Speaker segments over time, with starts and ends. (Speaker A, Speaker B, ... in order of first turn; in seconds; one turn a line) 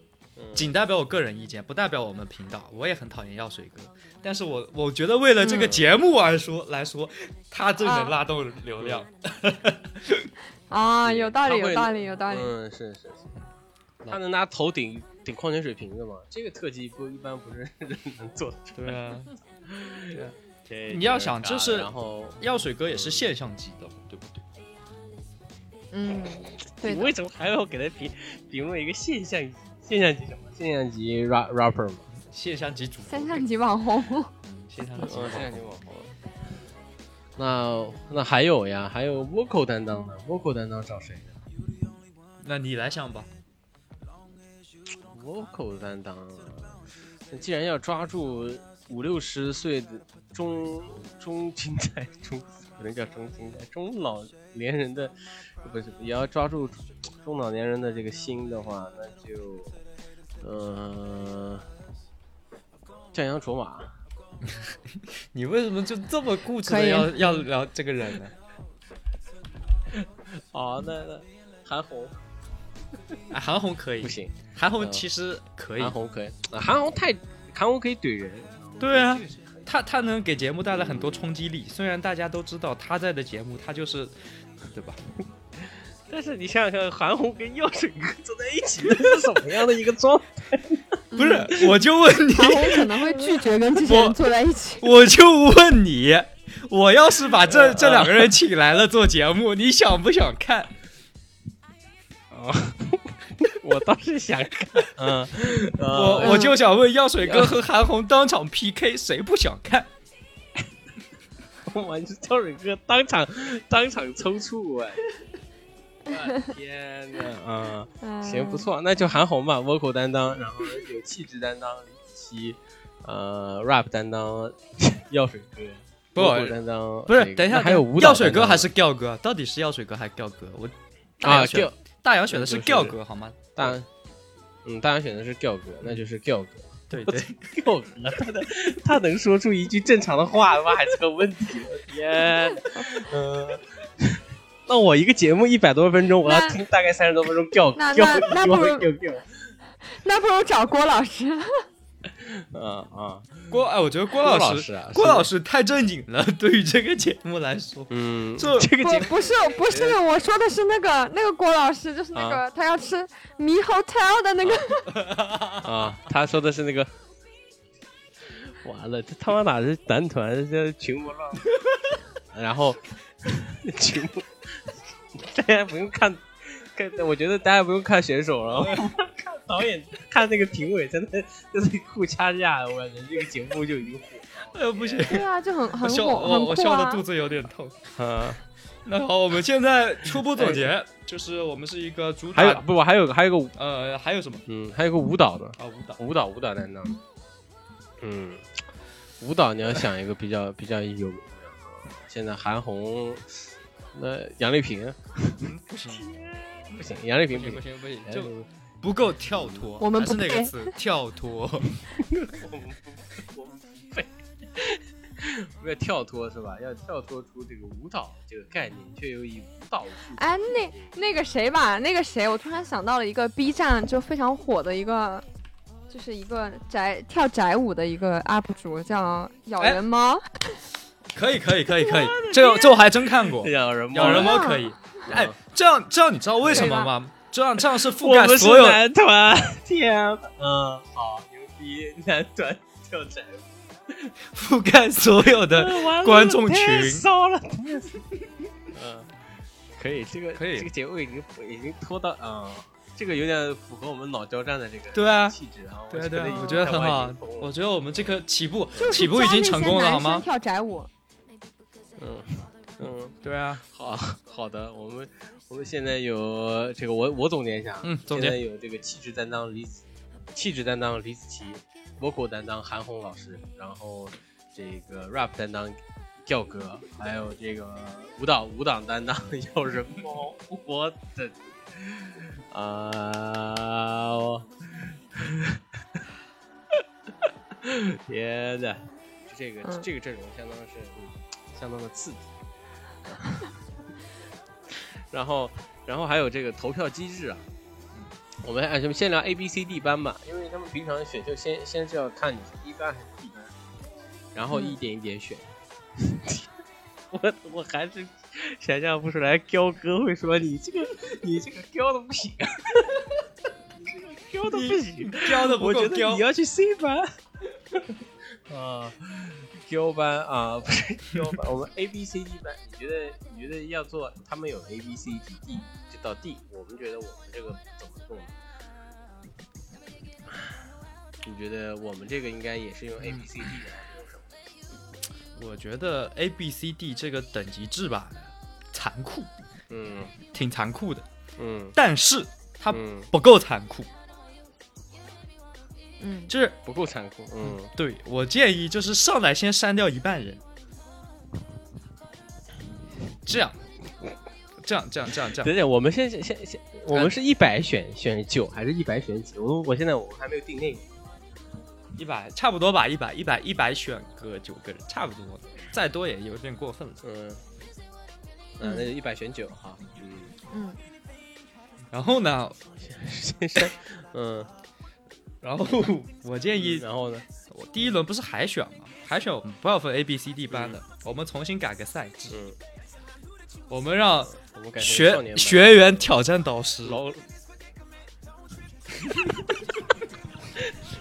Speaker A: 0.4-0.7
Speaker B: 0.6-10.3
Speaker A: 5.5-5.9
Speaker C: 7.8-8.2
Speaker A: 8.8-9.1
Speaker C: 10.7-12.5
Speaker A: 11.0-13.3
Speaker A: 14.1-19.0
Speaker B: 18.8-19.3
Speaker A: 19.6-23.3
Speaker B: 20.9-21.9
Speaker B: 22.4-24.4
Speaker C: 25.9-27.1
Speaker A: 26.8-32.0
Speaker B: 32.2-33.5
Speaker C: 33.1-34.3
Speaker B: 34.5-35.7
Speaker A: 35.0-36.1
Speaker A: 37.4-41.4
Speaker B: 42.4-43.3
Speaker A: 45.1-46.8
Speaker A: 47.3-59.8
Speaker A: 60.4-61.7
Speaker A: 63.1-63.9
Speaker B: 65.3-68.3
Speaker C: 66.7-67.5
Speaker A: 69.9-72.2
Speaker B: 73.3-76.0
Speaker A: 74.0-75.0
Speaker A: 75.8-79.4
Speaker B: 78.8-84.2
Speaker A: 80.7-81.3
Speaker B: 84.7-85.0
Speaker A: 85.7-91.0
Speaker C: 91.1-91.5
Speaker B: 91.2-94.2
Speaker C: 92.3-94.9
Speaker B: 94.8-100.7
Speaker A: 97.4-98.4
Speaker A: 102.3-106.6
Speaker B: 105.8-109.9
Speaker C: 106.2-106.5
Speaker A: 107.2-107.6
Speaker A: 111.6-115.0
Speaker A: 116.1-128.7
Speaker C: 118.0-118.7
Speaker B: 126.2-126.6
Speaker B: 127.1-133.8
Speaker A: 131.2-131.8
Speaker A: 132.3-133.0
Speaker A: 133.6-133.9
Speaker A: 134.7-149.2
Speaker B: 136.9-137.5
Speaker C: 146.2-146.6
Speaker C: 147.8-148.9
Speaker C: 149.9-151.5
Speaker A: 152.1-153.5
Speaker B: 153.5-159.1
Speaker A: 154.2-155.3
Speaker A: 157.9-160.0
Speaker C: 158.8-164.9
Speaker A: 162.1-162.4
Speaker B: 164.8-165.9
Speaker A: 165.6-166.9
Speaker A: 168.5-171.5
Speaker A: 172.3-185.2
Speaker B: 178.6-178.8
Speaker B: 184.5-187.8
Speaker C: 185.1-187.0
Speaker A: 188.0-188.4
Speaker B: 188.9-192.7
Speaker A: 190.2-190.7
Speaker A: 192.3-193.6
Speaker B: 193.6-194.4
Speaker A: 194.5-197.0
Speaker B: 195.6-196.0
Speaker A: 198.0-198.5
Speaker A: 199.2-208.5
Speaker B: 205.4-206.1
Speaker B: 207.3-211.8
Speaker A: 209.3-209.6
Speaker C: 209.8-210.7
Speaker A: 212.0-220.9
Speaker C: 220.2-225.2
Speaker C: 225.9-230.6
Speaker B: 231.1-238.8
Speaker A: 231.8-235.3
Speaker C: 234.0-234.7
Speaker A: 236.4-236.7
Speaker C: 236.5-236.9
Speaker A: 237.6-244.1
Speaker B: 244.3-247.1
Speaker A: 245.5-248.0
Speaker A: 248.7-249.1
Speaker A: 249.8-257.5
Speaker B: 250.3-250.7
Speaker B: 254.9-255.4
Speaker B: 255.9-260.2
Speaker C: 256.3-256.6
Speaker A: 258.8-259.0
Speaker C: 258.8-260.9
Speaker A: 262.0-286.0
Speaker B: 263.2-263.6
Speaker B: 267.8-268.4
Speaker A: 286.7-292.3
Speaker A: 293.1-293.4
Speaker A: 294.9-297.5
Speaker A: 298.4-303.5
Speaker A: 304.3-306.6
Speaker A: 307.1-313.2
Speaker A: 313.8-317.1
Speaker B: 314.5-316.3
Speaker A: 318.5-328.3
Speaker A: 331.2-334.3
Speaker B: 333.0-333.3
Speaker B: 335.4-339.3
Speaker A: 339.7-340.1
Speaker B: 340.3-341.1
Speaker A: 341.4-341.8
Speaker B: 341.8-343.9
Speaker A: 342.7-343.1
Speaker C: 346.0-346.3
Speaker B: 346.3-346.6
Speaker A: 346.6-347.7
Speaker B: 347.5-350.4
Speaker B: 353.3-353.6
Speaker B: 354.6-355.6
Speaker A: 355.4-360.9
Speaker B: 362.0-367.0
Speaker A: 367.0-367.4
Speaker A: 368.6-370.3
Speaker C: 368.6-368.9
Speaker C: 370.5-370.8
Speaker B: 371.9-372.6
Speaker A: 372.8-374.5
Speaker B: 375.4-376.9
Speaker A: 376.6-377.2
Speaker B: 377.5-382.4
Speaker A: 380.5-380.8
Speaker A: 382.3-382.6
Speaker B: 383.7-387.0
Speaker A: 384.4-386.0
Speaker A: 386.9-387.2